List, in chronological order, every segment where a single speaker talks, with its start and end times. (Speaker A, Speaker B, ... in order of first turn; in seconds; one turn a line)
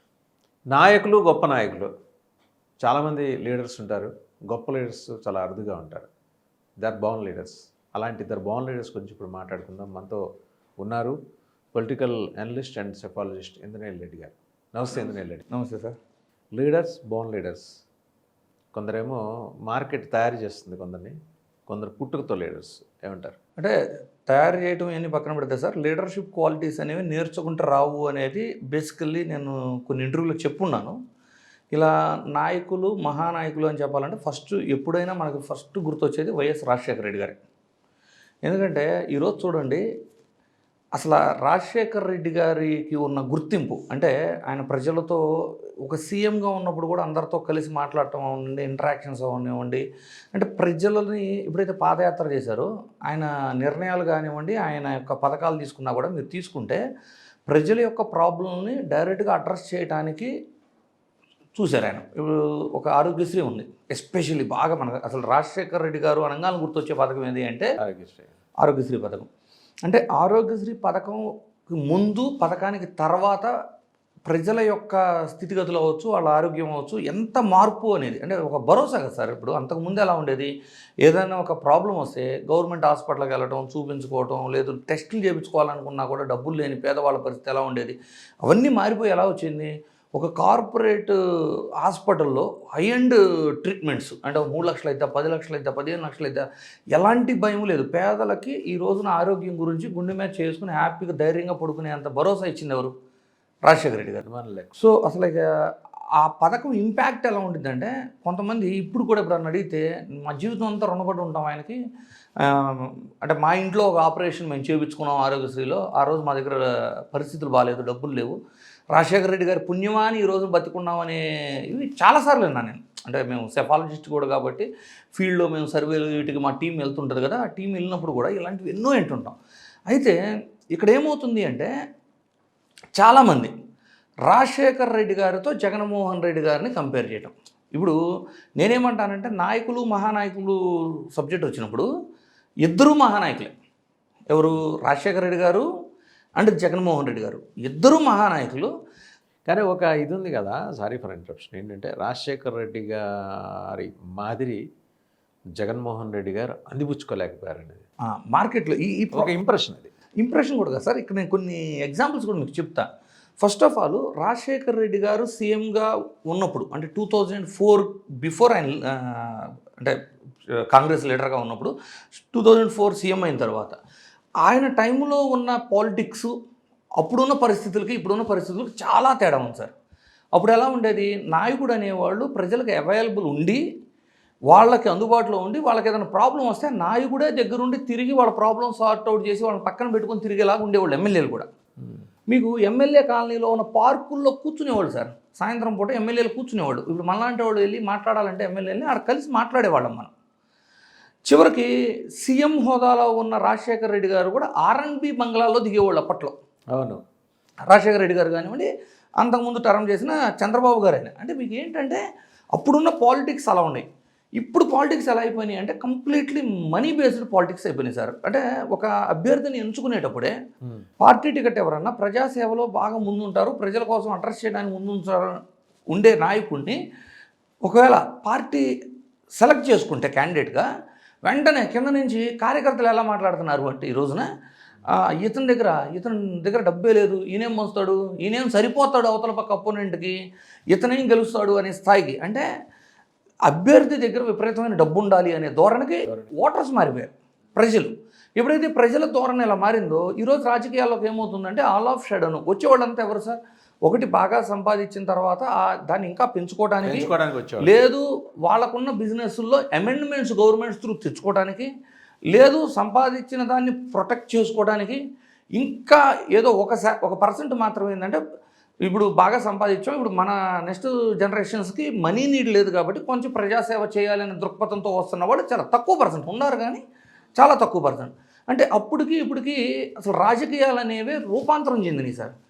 Speaker A: 0.7-1.9
Speaker A: 2.8-6.1
Speaker A: 6.8-10.2
Speaker A: 10.8-11.2
Speaker A: 11.7-15.4
Speaker B: 15.5-16.0
Speaker A: 16.5-17.7
Speaker A: 18.7-21.2
Speaker A: 21.7-23.4
Speaker B: 24.3-31.0
Speaker B: 31.7-37.4
Speaker B: 38.5-39.8
Speaker B: 41.0-45.2
Speaker B: 45.8-56.8
Speaker B: 57.5-60.3
Speaker B: 61.5-67.7
Speaker A: 67.8-68.3
Speaker B: 68.6-69.3
Speaker B: 69.8-73.5
Speaker B: 74.3-80.5
Speaker B: 81.0-91.2
Speaker B: 91.8-102.9
Speaker B: 103.7-104.2
Speaker A: 104.2-104.7
Speaker B: 104.8-105.5
Speaker B: 106.1-111.8
Speaker B: 112.4-118.4
Speaker B: 118.9-129.4
Speaker B: 129.9-130.2
Speaker B: 130.8-131.7
Speaker B: 133.0-133.5
Speaker B: 134.3-138.0
Speaker B: 138.6-140.6
Speaker B: 141.1-141.9
Speaker B: 142.6-143.5
Speaker B: 144.3-145.7
Speaker B: 146.4-148.7
Speaker A: 149.5-154.6
Speaker A: 155.6-157.8
Speaker B: 158.1-159.3
Speaker A: 159.1-159.9
Speaker B: 160.2-162.9
Speaker B: 163.4-170.0
Speaker B: 170.7-173.8
Speaker B: 174.4-176.3
Speaker B: 177.0-179.7
Speaker B: 180.3-183.6
Speaker B: 184.5-191.5
Speaker A: 191.8-192.1
Speaker B: 192.3-200.1
Speaker B: 201.3-201.7
Speaker B: 202.2-206.3
Speaker A: 206.7-207.0
Speaker B: 207.7-212.0
Speaker B: 212.6-213.9
Speaker B: 214.4-220.3
Speaker B: 221.0-225.3
Speaker B: 225.9-226.8
Speaker B: 227.6-228.7
Speaker B: 229.4-230.7
Speaker B: 231.2-234.3
Speaker B: 234.9-240.2
Speaker B: 240.7-242.4
Speaker B: 243.5-261.7
Speaker A: 256.8-257.8
Speaker B: 262.3-265.0
Speaker B: 265.6-268.2
Speaker B: 268.9-276.8
Speaker B: 277.4-282.3